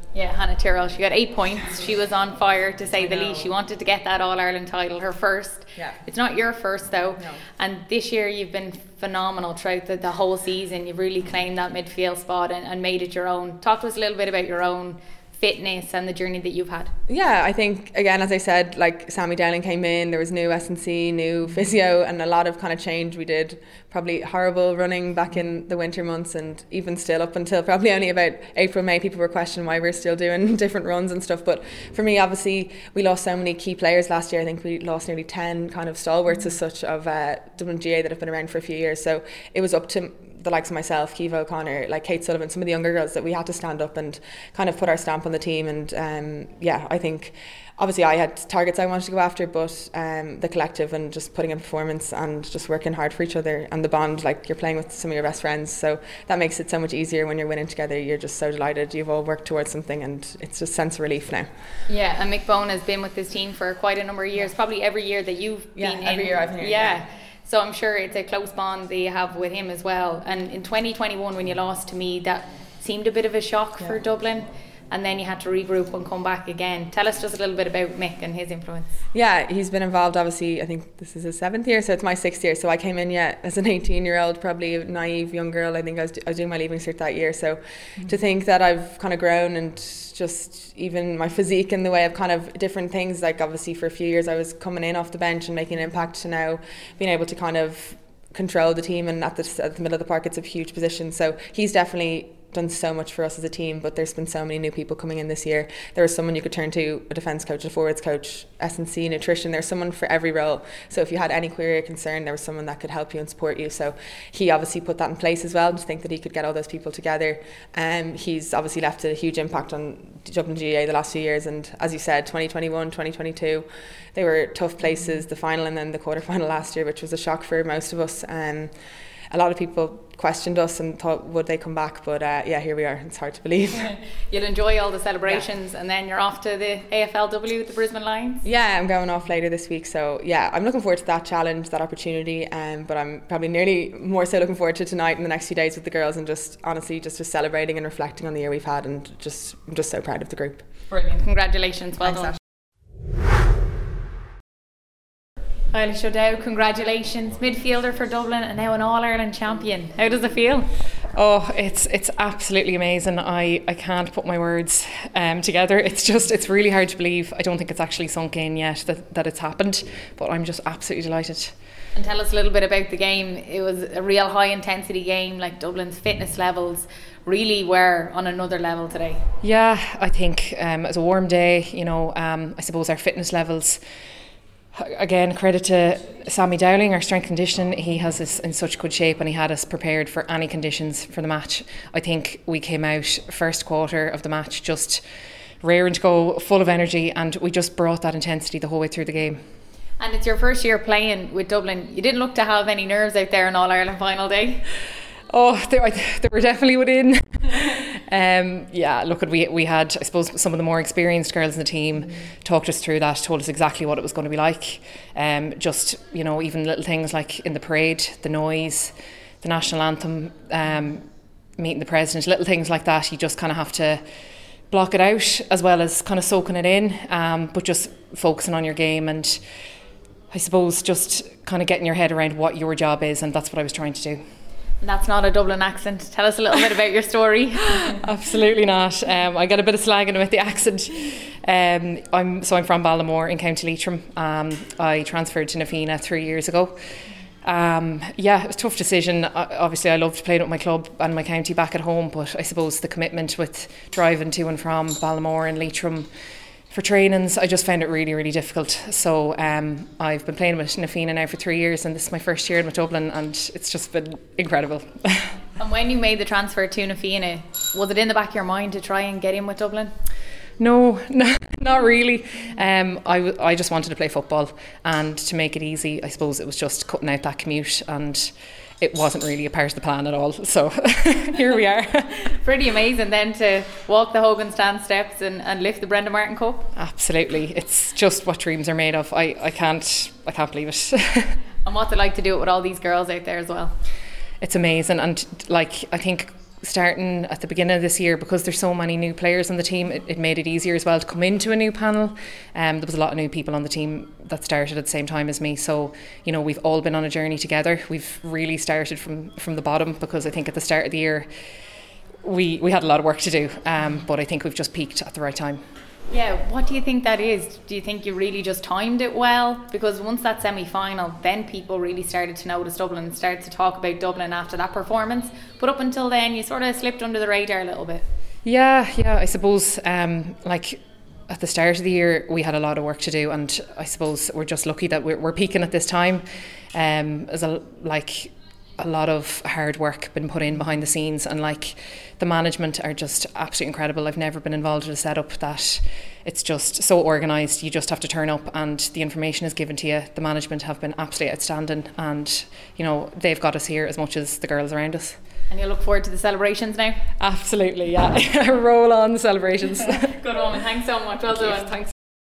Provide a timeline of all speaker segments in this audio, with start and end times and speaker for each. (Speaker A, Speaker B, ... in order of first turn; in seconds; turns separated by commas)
Speaker A: 0.1-16.9, Speaker B: 3.0-3.5, Speaker B: 17.1-61.5, Speaker A: 61.9-78.9, Speaker B: 65.8-67.0, Speaker B: 79.1-128.7, Speaker B: 129.3-133.9, Speaker A: 134.3-138.4, Speaker B: 138.4-150.6, Speaker A: 150.9-152.3, Speaker B: 152.0-152.4, Speaker A: 155.7-160.7, Speaker C: 161.2-171.5, Speaker A: 171.9-179.3, Speaker C: 179.4-183.8, Speaker C: 184.8-195.0, Speaker C: 195.6-199.4, Speaker A: 200.0-204.6, Speaker C: 205.3-221.1, Speaker C: 221.6-224.0, Speaker C: 224.7-229.4, Speaker C: 230.3-234.2, Speaker A: 234.8-237.9, Speaker C: 237.8-246.8, Speaker C: 247.4-256.1, Speaker C: 256.7-265.4, Speaker A: 265.6-269.9, Speaker C: 270.6-282.1, Speaker A: 282.2-286.7, Speaker C: 286.8-291.4, Speaker A: 291.6-293.8, Speaker C: 294.4-311.3, Speaker C: 312.2-315.6, Speaker A: 316.1-328.1, Speaker C: 328.4-336.2, Speaker C: 336.7-355.2, Speaker A: 355.5-357.0, Speaker C: 357.2-360.1, Speaker A: 360.1-361.8